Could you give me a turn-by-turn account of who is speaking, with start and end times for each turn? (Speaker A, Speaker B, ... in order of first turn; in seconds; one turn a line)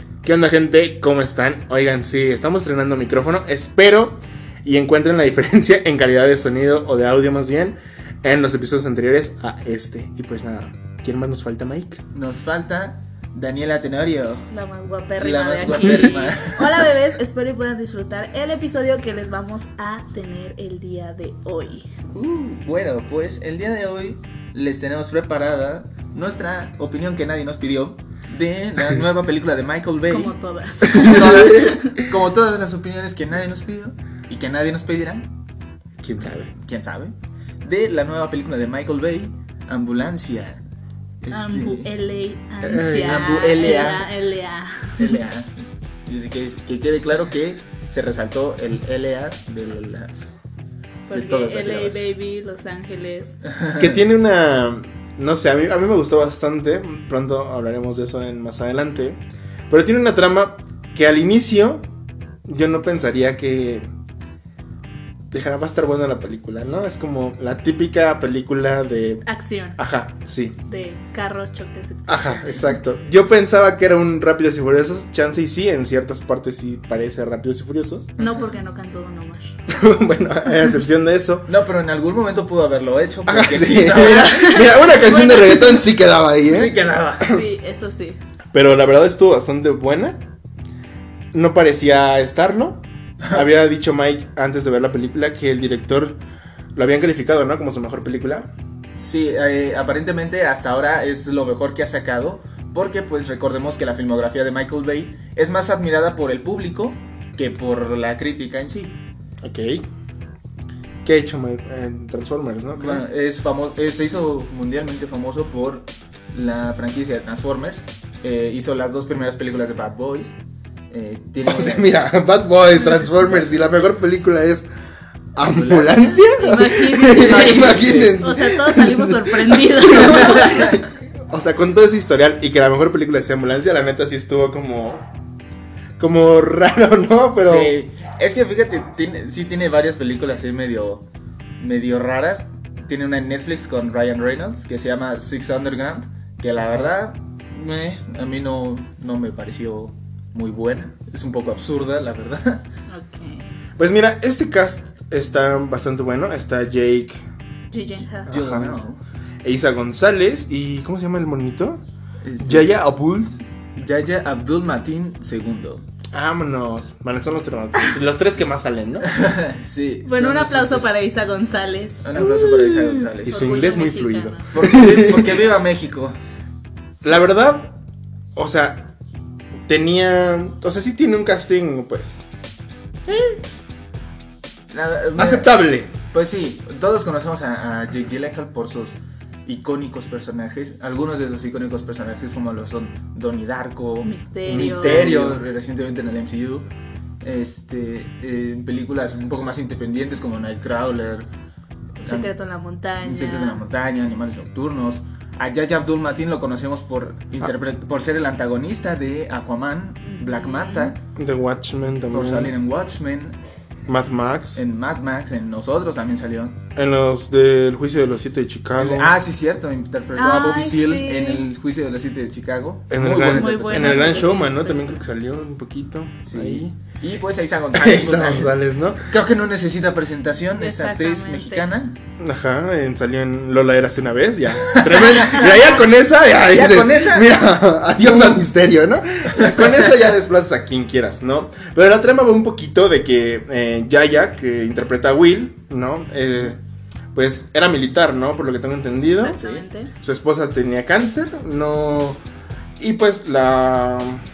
Speaker A: 0.2-12.0
Speaker B: 12.1-14.5
Speaker C: 14.5-21.9
Speaker B: 15.2-16.9
Speaker A: 15.8-16.1
Speaker B: 22.1-30.3
Speaker C: 30.1-32.0
Speaker A: 30.9-31.7
Speaker B: 30.9-35.3
Speaker A: 36.0-36.5
Speaker B: 36.5-40.6
Speaker B: 41.2-41.9
Speaker C: 41.3-45.2
Speaker A: 42.6-43.2
Speaker B: 42.7-44.1
Speaker B: 45.0-50.2
Speaker C: 51.1-53.4
Speaker B: 51.1-52.0
Speaker B: 53.5-53.9
Speaker A: 53.7-61.9
Speaker A: 62.5-63.9
Speaker A: 65.3-69.2
Speaker C: 69.2-69.8
Speaker A: 69.8-70.6
Speaker C: 70.7-72.8
Speaker A: 72.1-78.1
Speaker C: 78.2-79.5
Speaker A: 79.7-81.5
Speaker B: 81.5-84.4
Speaker A: 83.2-86.7
Speaker C: 84.0-85.8
Speaker B: 86.5-87.4
Speaker C: 87.2-88.2
Speaker A: 88.5-90.2
Speaker A: 91.3-96.2
Speaker A: 96.7-98.5
Speaker B: 99.0-109.0
Speaker A: 109.4-109.8
Speaker A: 111.0-113.0
Speaker B: 112.7-120.3
Speaker B: 120.9-121.9
Speaker A: 121.4-124.7
Speaker B: 123.1-123.5
Speaker A: 125.3-130.8
Speaker B: 125.4-126.2
Speaker C: 126.2-130.8
Speaker B: 127.1-128.2
Speaker B: 130.0-130.8
Speaker A: 131.3-135.0
Speaker A: 136.0-137.7
Speaker B: 137.4-141.0
Speaker B: 141.6-152.6
Speaker C: 152.9-153.5
Speaker A: 153.8-157.2
Speaker C: 157.7-158.3
Speaker B: 158.2-159.0
Speaker A: 158.3-158.8
Speaker A: 159.4-161.8
Speaker B: 162.2-162.7
Speaker A: 162.4-163.3
Speaker B: 163.8-165.8
Speaker A: 166.1-169.1
Speaker B: 169.0-171.0
Speaker C: 170.0-174.4
Speaker B: 172.0-173.6
Speaker A: 173.2-175.4
Speaker B: 174.5-176.2
Speaker A: 177.0-177.7
Speaker A: 178.3-178.9
Speaker A: 179.7-182.3
Speaker A: 183.1-183.4
Speaker B: 184.7-185.5
Speaker A: 185.2-185.9
Speaker B: 186.1-196.7
Speaker C: 194.0-195.1
Speaker A: 194.5-195.4
Speaker B: 197.2-201.3
Speaker B: 202.0-202.3
Speaker C: 202.0-203.6
Speaker B: 203.0-211.0
Speaker C: 210.0-210.9
Speaker A: 211.2-212.5
Speaker B: 212.1-213.4
Speaker A: 213.9-214.6
Speaker B: 214.6-216.6
Speaker A: 216.8-219.1
Speaker B: 218.8-224.3
Speaker C: 220.1-221.4
Speaker A: 222.9-226.7
Speaker C: 223.2-224.9
Speaker B: 226.2-231.9
Speaker A: 227.7-229.1
Speaker C: 230.6-231.7
Speaker A: 232.2-246.6
Speaker B: 234.6-235.8
Speaker B: 236.5-237.3
Speaker A: 247.1-249.4
Speaker C: 249.1-249.9
Speaker B: 249.4-249.6
Speaker A: 249.9-252.2
Speaker A: 252.8-254.2